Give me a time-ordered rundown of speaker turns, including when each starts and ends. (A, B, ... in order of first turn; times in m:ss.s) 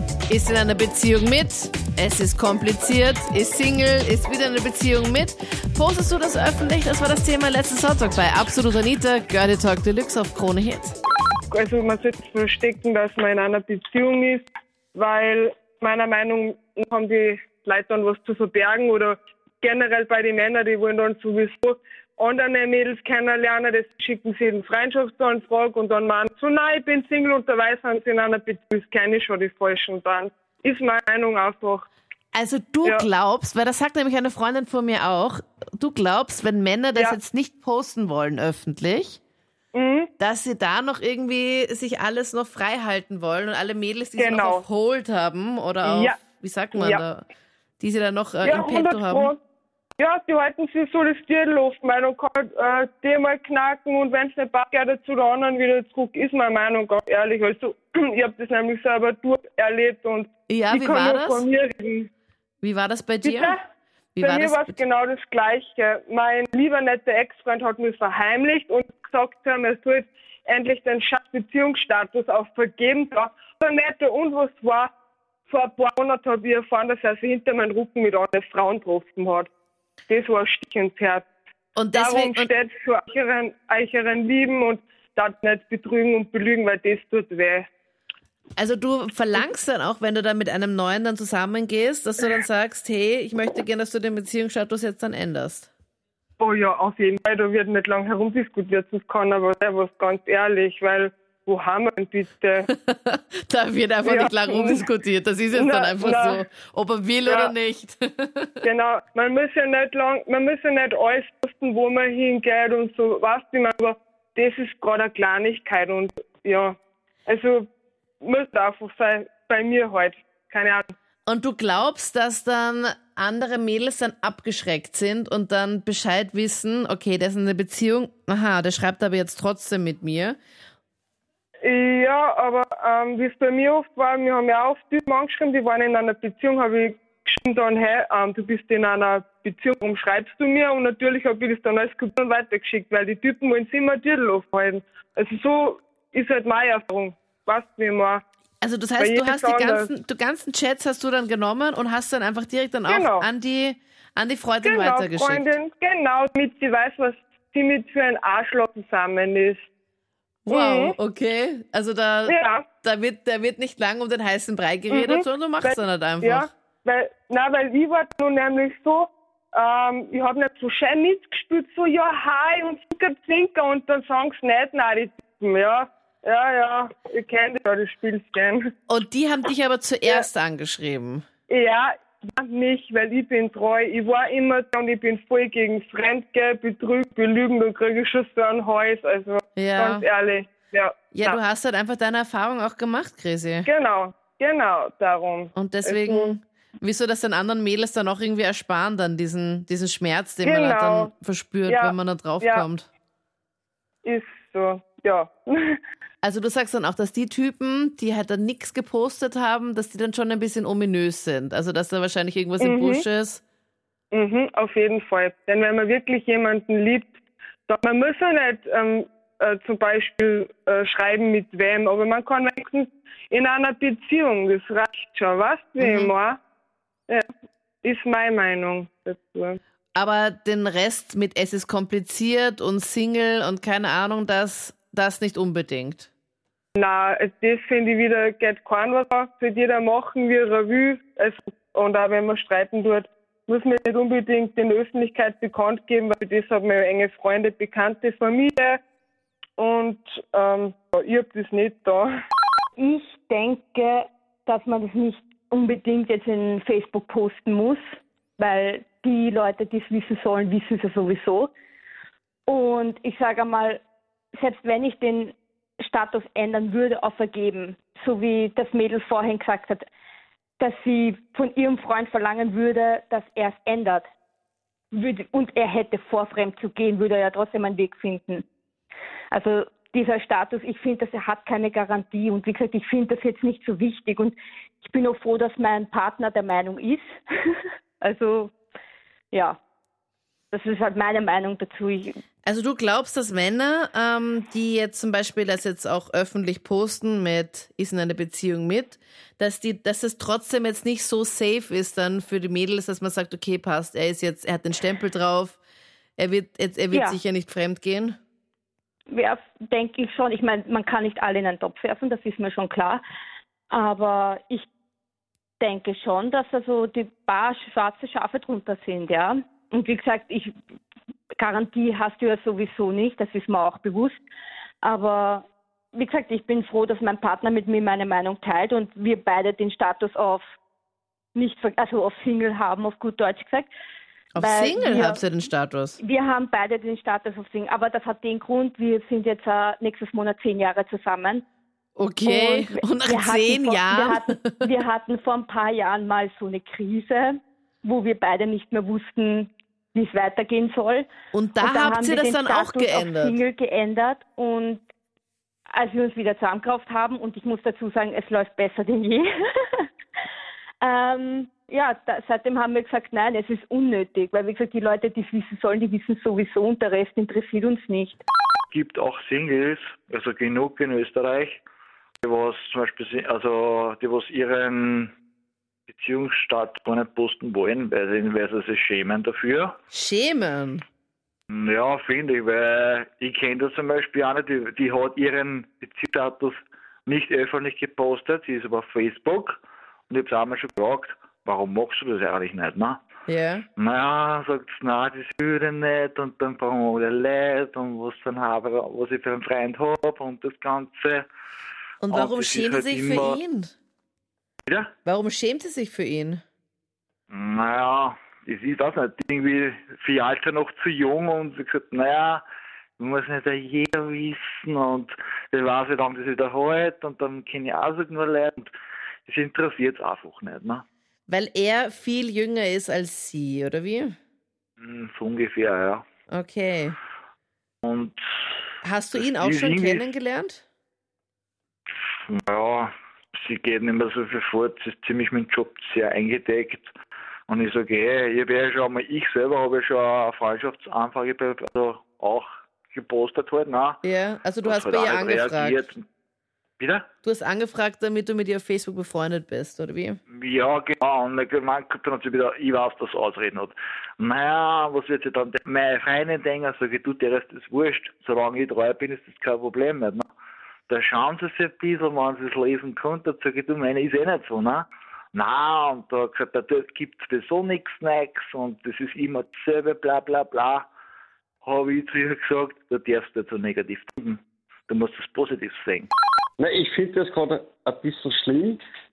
0:00.3-0:11.0 A
0:11.5-0:14.4 B
0:14.9-0:31.9 B
0:32.3-0:39.2 A
0:39.7-0:40.1 B
0:40.2-0:47.2 A
0:44.2-0:44.6 B
0:45.8-0:46.2 B
0:46.7-0:47.0 B
0:47.8-0:49.3 A
0:48.4-0:49.4 B
0:50.0-1:02.1 B
1:00.5-1:01.5 A
1:02.6-1:03.6 A
1:03.2-1:03.6 B
1:04.2-1:04.8 A
1:04.2-1:14.9 B
1:15.5-1:19.5 B
1:20.1-1:21.3 B
1:21.7-1:22.5 A
1:21.9-1:27.7 B
1:28.6-1:35.7 A
1:36.4-1:42.7 B
1:42.7-1:48.6 A
1:44.0-1:44.9 B
1:45.5-1:46.4 B
1:47.2-1:47.5 B
1:48.6-1:57.6 B
1:58.2-2:00.9 B
2:01.2-2:10.4 A
2:11.6-2:28.2 B
2:28.6-2:35.5 A
2:29.0-2:29.9 B
2:32.9-2:33.3 B
2:34.6-2:39.6 B
2:40.4-2:46.5 A
2:40.5-2:40.9 B
2:42.3-2:42.7 B
2:44.9-2:58.6 B
2:58.9-3:01.2 A
3:01.5-3:11.4 B
3:09.6-3:10.0 A
3:11.1-3:13.7 A
3:13.6-3:16.3 B
3:15.5-3:22.9 A
3:20.4-3:21.1 B
3:21.6-3:22.7 B
3:24.0-3:25.8 B
3:26.2-3:33.4 A
3:32.6-3:33.0 B
3:34.1-3:37.1 B
3:37.7-3:46.4 B
3:45.8-3:46.1 A
3:47.8-3:49.6 B
3:49.9-3:56.1 A
3:56.8-4:08.8 B
4:09.6-4:12.1 B
4:12.8-4:17.8 C
4:18.4-4:21.5 C
4:22.5-4:23.8 C
4:24.3-4:29.8 C
4:30.6-4:34.1 C
4:34.9-4:38.4 C
4:39.3-4:48.5 C
4:49.3-4:49.6 C
4:50.5-4:52.2 C
4:52.4-5:05.6 A
5:06.2-5:08.2 A
5:06.9-5:07.2 C
5:09.1-5:13.0 C
5:13.7-5:14.7 C
5:15.6-5:20.5 C
5:21.3-5:24.2 C
5:24.8-5:30.4 C
5:31.3-5:33.7 C
5:34.3-5:36.0 A
5:34.4-5:35.2 C
5:36.0-5:41.4 C
5:42.0-5:44.5 A
5:42.2-5:51.1 C
5:51.3-5:53.4 A
5:51.6-5:54.8 C
5:55.7-5:59.9 C
6:00.8-6:08.2 C
6:08.7-6:11.6 D
6:12.2-6:15.1 D
6:15.9-6:19.7 D
6:19.9-6:20.8 A
6:21.5-6:29.6 D
6:30.1-6:33.0 D
6:33.3-6:33.6 A
6:33.8-6:41.2 D
6:42.0-6:43.7 A
6:42.1-6:43.4 D
6:44.7-6:44.9 D
6:45.0-6:46.4 A
6:47.3-6:52.4 D
6:53.0-6:58.7 D
6:59.2-7:00.8 D
7:01.3-7:04.2 A
7:04.8-7:06.0 D
7:06.3-7:07.0 A
7:07.8-7:08.2 D
7:08.8-7:10.6 A
7:09.1-7:10.1 D
7:12.3-7:16.9 D
7:17.5-7:24.0 D
7:24.0-7:25.8 A
7:24.6-7:26.0 D
7:26.8-7:27.1 D
7:27.2-7:30.2 A
7:30.3-7:40.3 D
7:40.9-7:50.9 D
7:51.6-7:56.1 D
7:56.6-7:58.8 E